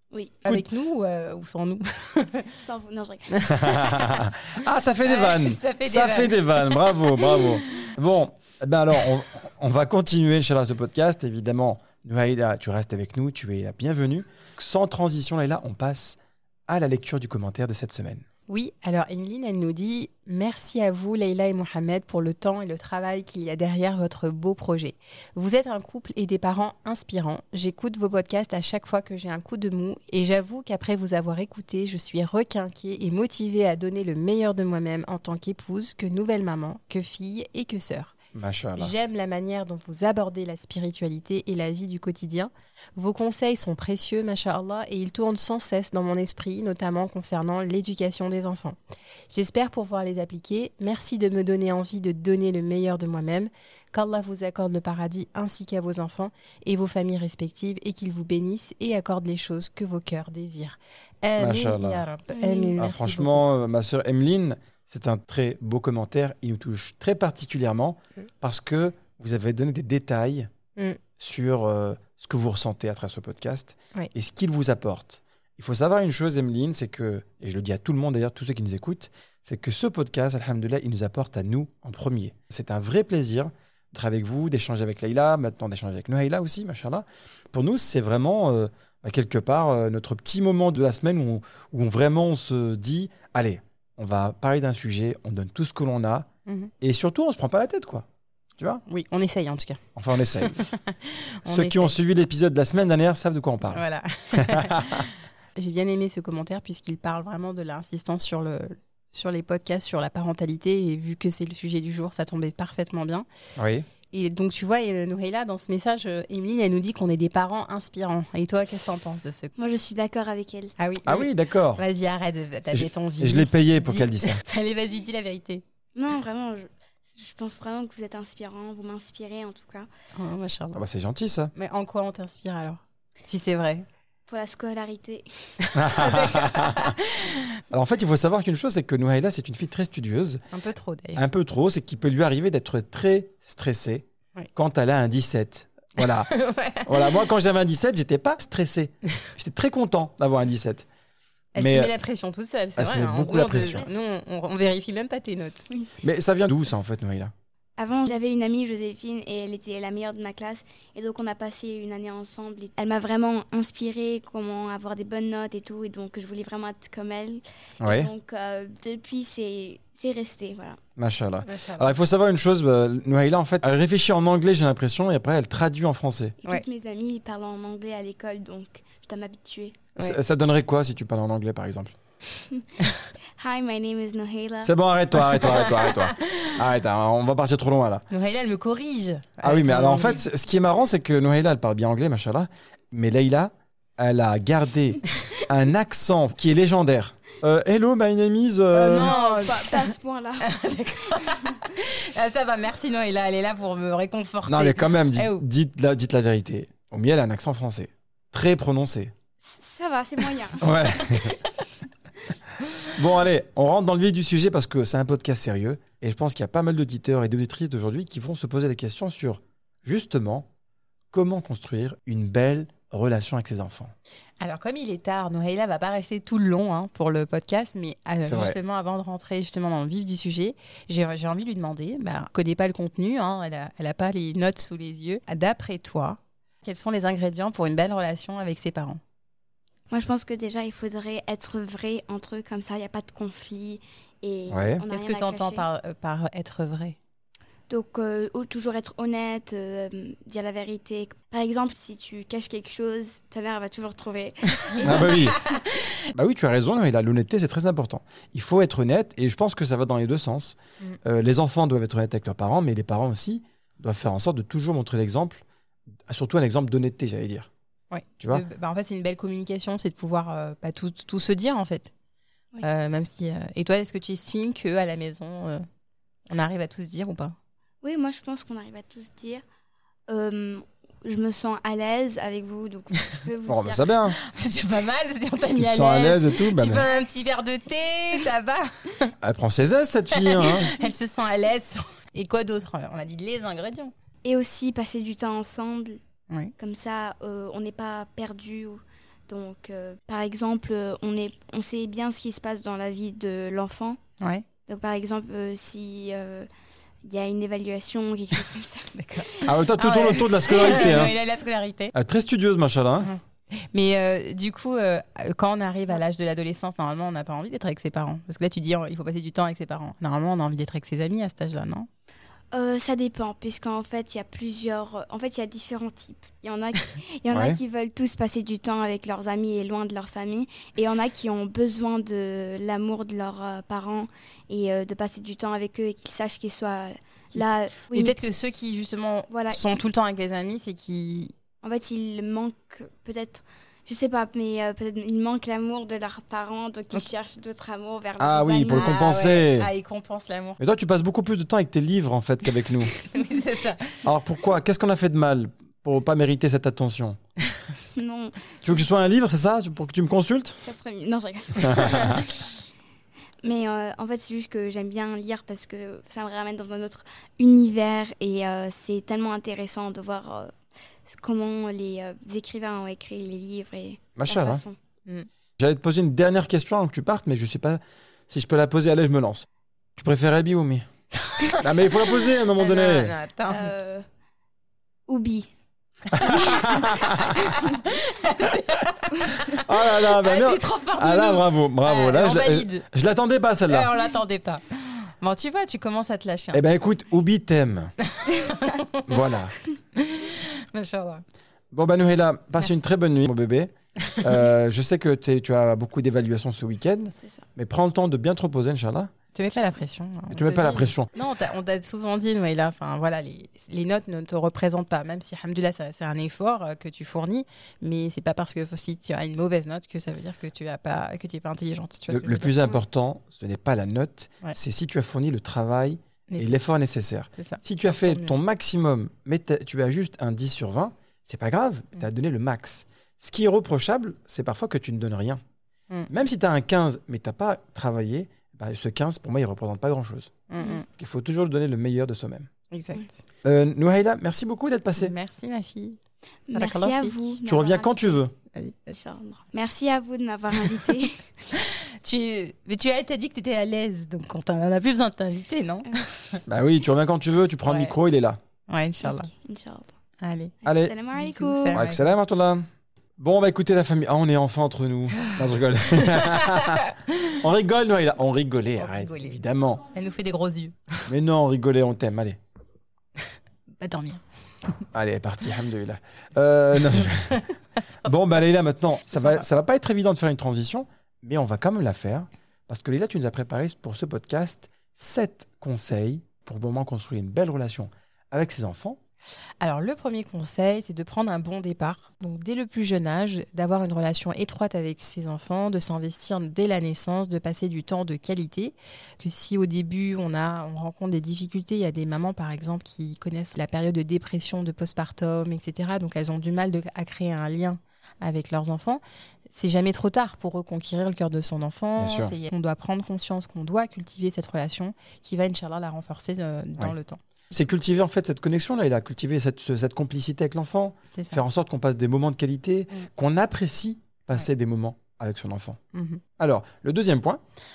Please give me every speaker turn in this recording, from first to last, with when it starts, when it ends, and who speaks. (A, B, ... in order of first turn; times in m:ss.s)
0:00.1-0:00.5 A
0:00.4-0:02.6 B
0:02.6-0:03.9 A
0:03.4-0:04.2 B
0:03.5-0:18.2 C
0:05.0-0:07.9 B
0:18.5-0:38.2 B
0:38.3-0:38.9 C
0:38.8-0:48.8 B
0:49.3-1:03.4 B
1:01.4-1:02.0 C
1:02.3-1:02.7 A
1:02.8-1:10.5 C
1:11.2-1:36.3 C
1:36.5-1:36.7 B
1:36.8-1:38.1 C
1:38.6-1:38.8 C
1:38.9-1:39.8 B
1:40.0-1:40.7 C
1:40.4-1:41.9 B
1:41.4-1:45.1 C
1:43.7-1:53.3 B
1:53.6-1:53.9 C
1:54.1-1:59.5 B
1:59.6-2:00.7 A
2:00.8-2:05.6 B
2:01.0-2:01.8 C
2:02.7-2:04.4 C
2:06.0-2:09.9 A
2:10.2-2:10.8 B
2:10.8-2:11.5 C
2:11.6-2:13.9 B
2:14.3-2:15.7 A
2:15.6-2:17.5 B
2:15.8-2:17.0 C
2:17.7-2:20.4 C
2:20.5-2:21.2 B
2:21.2-2:26.3 C
2:26.0-2:27.3 B
2:26.8-2:30.9 C
2:31.6-2:35.7 B
2:31.6-2:31.9 C
2:32.8-2:33.9 C
2:36.0-2:37.3 C
2:37.8-2:50.8 A
2:47.8-2:48.1 C
2:51.0-2:56.4 C
2:51.5-2:51.9 B
2:56.4-2:59.8 A
3:00.0-3:02.0 C
3:03.4-3:05.7 A
3:04.6-3:08.0 C
3:05.4-3:06.6 B
3:08.1-3:10.2 B
3:09.4-3:19.2 C
3:18.7-3:25.4 B
3:19.0-3:20.5 A
3:21.1-3:21.6 A
3:24.5-3:29.1 C
3:29.4-3:30.9 A
3:30.6-3:31.4 C
3:32.9-3:40.5 C
3:41.1-3:43.9 C
3:44.4-3:59.0 B
3:48.2-3:48.6 C
3:59.9-4:05.7 A
4:04.5-4:04.8 C
4:04.9-4:07.0 B
4:07.7-4:15.1 A
4:14.7-4:15.9 B
4:14.8-4:15.4 C
4:16.1-4:25.4 C
4:26.1-4:27.5 C
4:27.9-4:31.9 B
4:32.6-4:35.7 B
4:36.3-4:37.4 B
4:37.8-4:39.4 A
4:40.1-4:43.9 A
4:43.5-4:44.2 C
4:44.2-4:49.2 B
4:45.5-4:46.9 C
4:49.2-4:50.7 C
4:50.1-4:53.9 B
4:54.2-4:56.0 A
4:56.6-5:04.0 A
5:04.2-5:04.4 B
5:04.7-5:06.5 A
5:07.0-5:09.4 A
5:09.0-5:11.9 B
5:09.4-5:11.2 C
5:11.9-5:13.1 C
5:13.0-5:21.9 B
5:22.5-5:38.2 A
5:27.3-5:27.6 C
5:37.3-5:41.3 B
5:39.3-5:39.8 A
5:41.6-5:49.0 A
5:48.2-5:49.7 C
5:48.7-5:50.6 B
5:50.6-5:53.0 C
5:53.0-5:54.1 B
5:54.0-5:57.2 C
5:58.0-5:58.4 A
5:58.6-6:00.6 C
6:00.6-6:02.4 A
6:01.6-6:02.2 C
6:03.4-6:14.8 A
6:14.2-6:14.6 C
6:15.6-6:20.9 C
6:21.3-6:23.7 B
6:21.6-6:23.1 C
6:23.5-6:24.1 A
6:25.1-6:25.5 A
6:26.1-6:28.0 A
6:26.5-6:27.2 C
6:27.9-6:32.8 B
6:29.5-6:33.9 C
6:33.7-6:36.6 B
6:36.5-6:37.9 C
6:38.1-6:39.3 B
6:39.1-6:39.5 C
6:39.9-6:41.2 B
6:41.7-6:49.1 C
6:47.1-6:47.5 A
6:49.4-7:02.8 B
6:50.3-6:51.1 C
7:02.1-7:15.4 C
7:07.4-7:08.4 B
7:16.1-7:22.5 C
7:20.5-7:20.9 B
7:22.7-7:23.1 B
7:23.4-7:25.1 C
7:25.0-7:26.0 B
7:26.5-7:28.2 A
7:26.5-7:27.3 B
7:27.5-7:28.3 C
7:28.5-7:28.9 B
7:28.9-7:31.3 A
7:31.5-7:36.4 B
7:36.5-7:38.4 C
7:37.7-7:37.9 B
7:38.7-7:39.3 B
7:39.0-7:39.9 A
7:40.2-7:40.6 B
7:40.6-7:40.9 C
7:40.6-7:41.8 A
7:41.1-7:42.1 B
7:41.7-7:42.7 C
7:43.2-7:49.9 C
7:46.0-7:47.4 B
7:48.8-7:49.4 B
7:49.9-7:51.1 B
7:51.1-7:52.4 C
7:53.2-7:54.8 B
7:54.9-7:57.4 C
7:58.0-8:09.0 C
7:59.1-7:59.4 B
8:09.6-8:37.2 B
8:32.0-8:32.3 C
8:37.5-8:45.8 C
8:41.2-8:41.4 B
8:45.9-8:46.2 B
8:46.4-8:47.4 C